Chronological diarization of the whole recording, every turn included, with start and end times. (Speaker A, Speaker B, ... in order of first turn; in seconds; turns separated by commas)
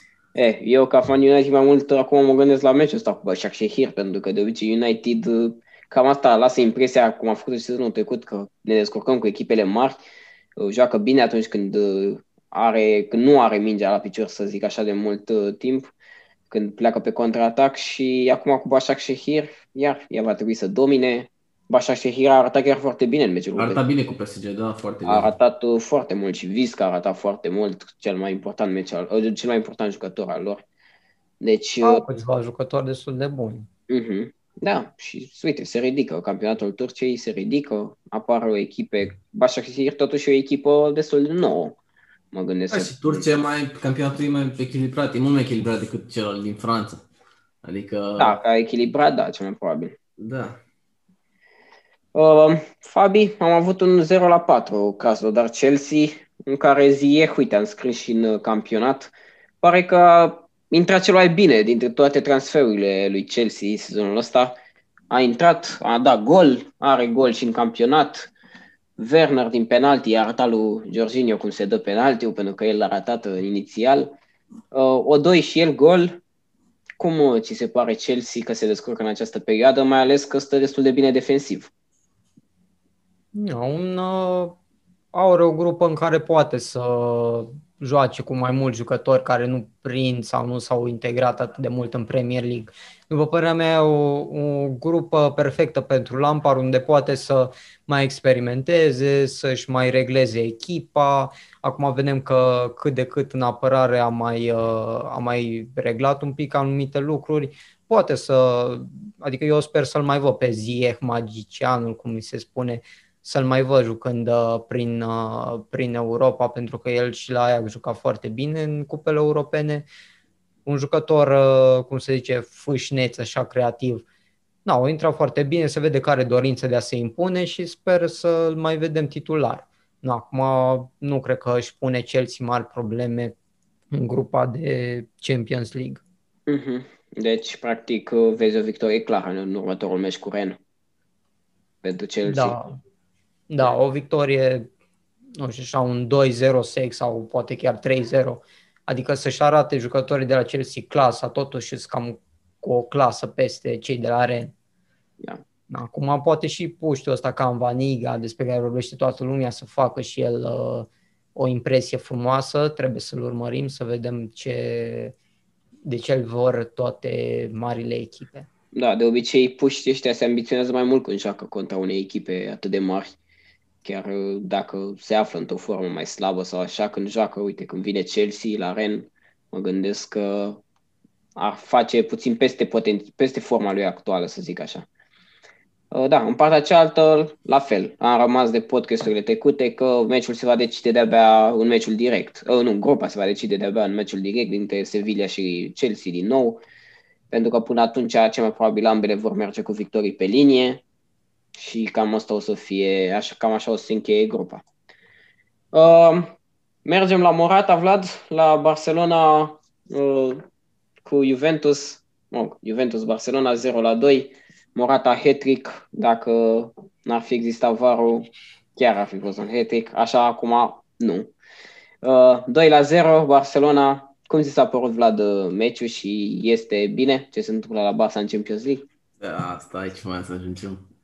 Speaker A: 0.3-10.0, Speaker A: 10.6-15.9, Speaker A: 16.5-23.8, Speaker B: 23.6-25.3, Speaker A: 25.1-30.6, Speaker A: 31.4-32.0, Speaker C: 31.8-33.7, Speaker A: 33.9-41.8, Speaker A: 42.3-43.3, Speaker B: 42.7-47.0, Speaker B: 47.6-48.4, Speaker A: 48.2-49.9, Speaker B: 50.2-50.6, Speaker A: 52.1-64.5, Speaker A: 65.1-68.3, Speaker A: 69.0-74.1, Speaker A: 74.7-76.2, Speaker A: 77.0-81.7, Speaker C: 83.3-84.6, Speaker C: 85.1-119.9, Speaker C: 120.7-124.0, Speaker C: 124.6-133.3, Speaker C: 133.9-136.0, Speaker A: 136.5-140.6, Speaker A: 141.8-142.6, Speaker C: 142.2-142.8, Speaker C: 143.5-144.7, Speaker C: 145.4-154.5, Speaker C: 155.7-165.1, Speaker C: 165.8-168.5, Speaker A: 168.7-173.1, Speaker A: 173.8-180.6, Speaker A: 181.3-184.8, Speaker A: 185.9-196.6, Speaker A: 197.3-200.8, Speaker A: 201.5-204.6, Speaker A: 205.7-206.3, Speaker A: 206.8-210.4, Speaker A: 211.0-221.3, Speaker A: 222.0-228.8, Speaker B: 229.2-230.8